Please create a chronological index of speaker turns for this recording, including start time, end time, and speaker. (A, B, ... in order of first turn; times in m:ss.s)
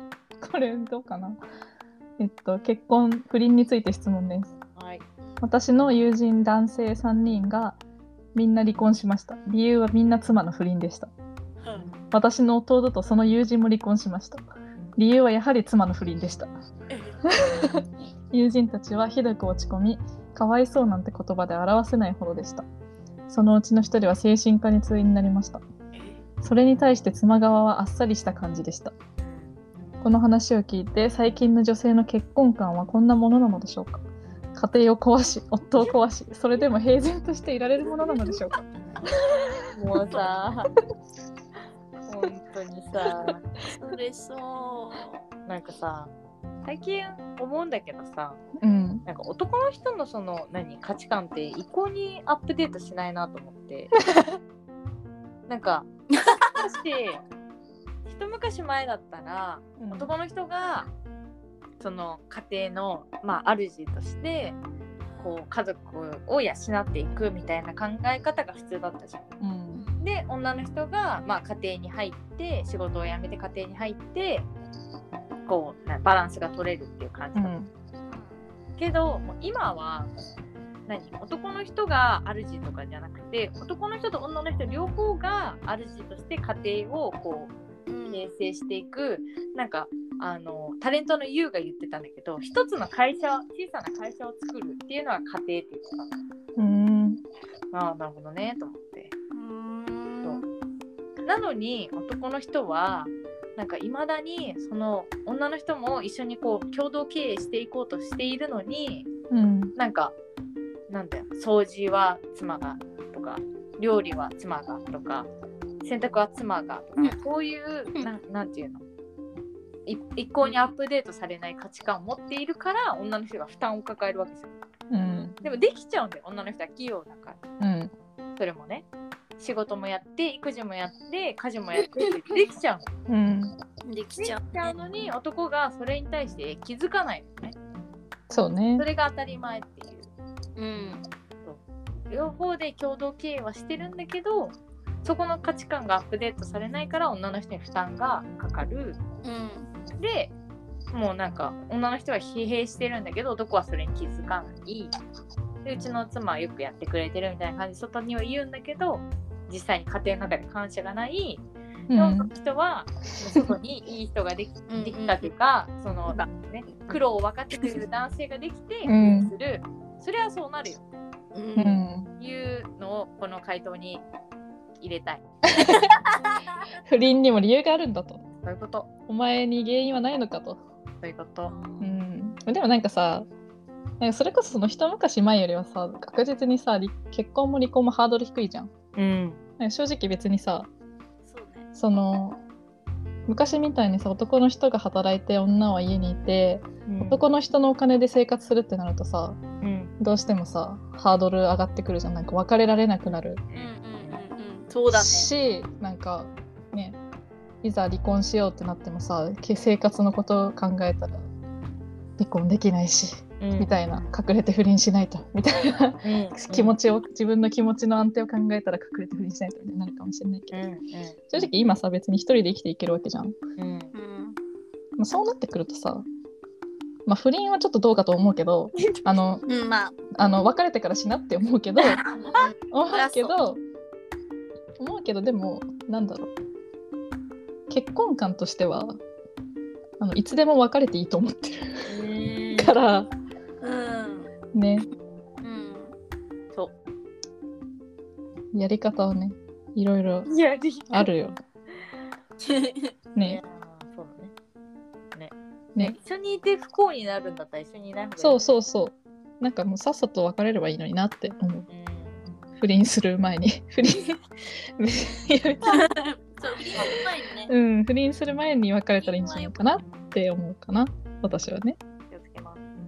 0:00.4-0:01.4 A
0:02.2-0:04.5 A
0:04.8-0:05.0 B
0:05.2-0:05.5 C
0:05.4-0:07.8 A
0:08.3-0:11.1 A
0:11.6-0:11.9 C
0:12.1-0:16.5 A
0:16.9-0:17.2 C
0:17.5-0:22.6 A
0:23.3-0:25.6 A
0:26.4-0:28.9 A
0:29.2-0:30.0 B
0:30.0-0:34.0 A
0:34.6-0:38.6 A
0:37.8-0:38.4 C
0:39.7-0:40.7 B
0:42.1-0:43.4 B
0:43.7-0:45.2 C
0:45.5-0:46.1 B
0:46.6-0:48.4 B
0:48.6-0:49.0 A
0:49.0-0:54.0 B
0:54.0-0:54.4 A
0:55.5-0:55.9 B
0:56.4-0:57.2 B
0:58.0-1:00.9 B
0:59.8-1:00.1 A
1:01.8-1:04.6 B
1:05.0-1:05.4 C
1:05.2-1:09.2 B
1:09.4-1:09.8 A
1:09.7-1:10.1 C
1:10.0-1:14.5 B
1:15.4-1:17.6 B
1:17.3-1:17.7 A
1:18.1-1:18.4 C
1:18.8-1:20.1 B
1:20.9-1:27.6 B
1:27.9-1:28.3 C
1:28.1-1:36.1 B
1:36.6-1:37.2 A
1:37.7-1:39.1 B
1:39.3-1:40.4 C
1:41.2-1:49.1 B
1:49.3-1:49.7 A
1:49.8-1:50.1 B
1:50.9-1:55.3 B
1:55.8-1:58.8 B
1:59.9-2:04.5 B
2:04.9-2:05.4 A
2:05.0-2:05.4 C
2:05.4-2:07.4 B
2:07.6-2:07.9 A
2:08.4-2:08.8 B
2:09.4-2:12.9 B
2:13.1-2:13.5 A
2:13.8-2:14.8 C
2:14.2-2:17.6 B
2:18.3-2:18.8 A
2:18.8-2:20.1 B
2:20.6-2:21.0 C
2:21.4-2:29.0 B
2:29.2-2:29.7 C
2:30.0-2:30.3 B
2:30.9-2:35.0 B
2:35.6-2:50.8 B
2:41.9-2:42.3 A
2:44.7-2:45.3 C
2:48.8-2:49.3 A
2:51.3-2:51.8 C
2:51.6-2:52.1 A
2:52.2-2:54.0 B
2:54.8-2:55.2 B
2:55.6-2:56.1 C
2:56.8-2:58.2 A
2:58.4-2:58.9 B
2:59.1-3:00.6 A
3:01.0-3:01.5 B
3:01.5-3:02.0 C
3:01.8-3:03.3 A
3:04.0-3:08.7 A
3:08.9-3:09.4 B
3:09.6-3:10.7 A
3:11.2-3:11.7 C
3:11.7-3:12.4 A
3:13.3-3:19.4 A
3:16.9-3:17.2 B
3:19.6-3:19.9 B
3:20.0-3:23.4 A
3:23.0-3:24.2 B
3:23.5-3:25.3 C
3:24.9-3:27.0 A
3:27.6-3:31.2 A
3:32.2-3:40.6 A
3:33.4-3:33.8 B
3:36.0-3:36.8 B
3:40.5-3:41.5 B
3:41.3-3:43.4 A
3:43.6-3:43.9 B
3:43.9-3:44.4 C
3:45.0-3:46.0 A
3:47.0-3:49.4 A
3:48.8-3:49.3 B
3:49.4-3:50.1 C
3:50.1-3:52.0 A
3:52.1-3:53.4 C
3:52.7-3:53.6 A
3:54.8-3:56.3 A
3:57.7-3:59.0 A
4:00.0-4:01.8 A
4:01.8-4:02.8 B
4:02.6-4:03.1 A
4:03.6-4:04.3 C
4:04.5-4:04.9 A
4:05.4-4:05.9 C
4:08.5-4:10.3 A
4:10.2-4:11.1 B
4:10.9-4:11.4 A
4:12.4-4:12.9 C
4:13.2-4:14.3 B
4:15.1-4:18.5 B
4:18.2-4:21.7 A
4:21.7-4:22.3 B
4:22.6-4:24.2 A
4:24.8-4:25.9 A
4:25.6-4:27.5 C
4:27.5-4:31.8 A
4:29.0-4:29.8 C
4:32.1-4:32.6 B